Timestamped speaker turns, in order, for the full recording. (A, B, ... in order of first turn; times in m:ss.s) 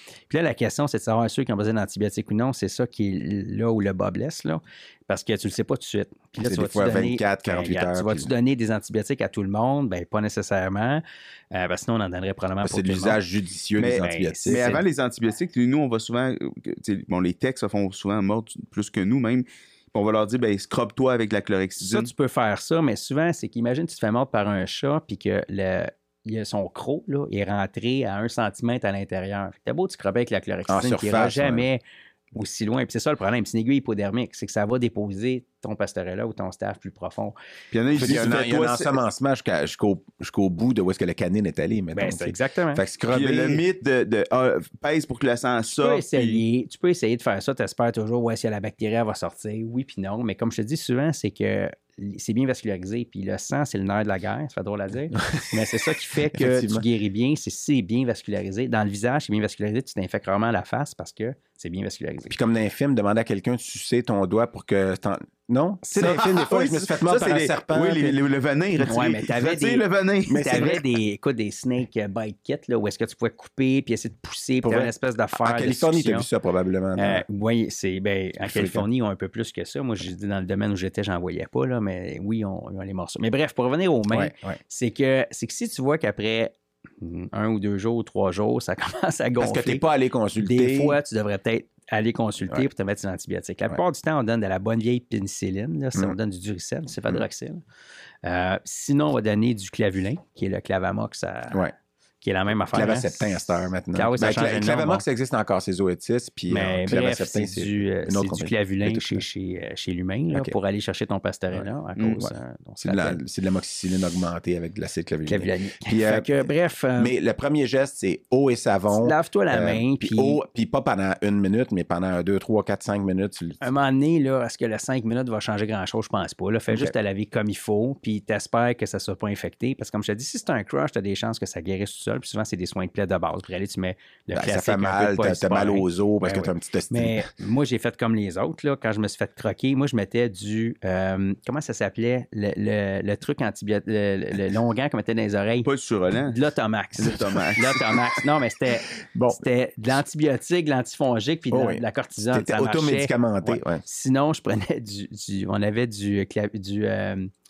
0:00.3-0:13.2 A
0:06.3-0:08.3 B
0:12.6-0:14.8 B
0:13.8-0:22.1 C
0:14.0-0:14.8 A
0:21.8-0:31.8 A
0:30.7-0:31.7 B
0:32.3-0:37.4 A
0:37.7-0:38.9 C
0:37.9-0:43.6 B
0:41.9-0:42.8 A
0:43.1-0:46.4 C
0:45.7-1:02.4 A
0:56.3-0:56.8 B
1:02.3-1:08.2 B
1:05.9-1:10.8 C
1:08.8-1:16.3 A
1:10.3-1:10.8 B
1:14.6-1:17.2 B
1:17.0-1:29.8 A
1:18.4-1:18.8 B
1:24.1-1:24.6 B
1:29.4-1:31.0 B
1:30.4-1:37.6 A
1:38.2-1:41.7 A
1:42.2-1:45.0 A
1:42.6-1:49.2 B
1:46.5-1:53.2 A
1:50.3-1:50.6 B
1:51.5-2:03.6 B
1:55.3-1:57.1 A
1:58.9-2:00.4 A
2:03.6-2:25.7 A
2:06.7-2:06.9 B
2:14.3-2:17.3 B
2:25.6-2:26.4 C
2:26.2-2:37.3 A
2:27.0-2:27.8 C
2:29.1-2:30.0 B
2:31.5-2:33.8 B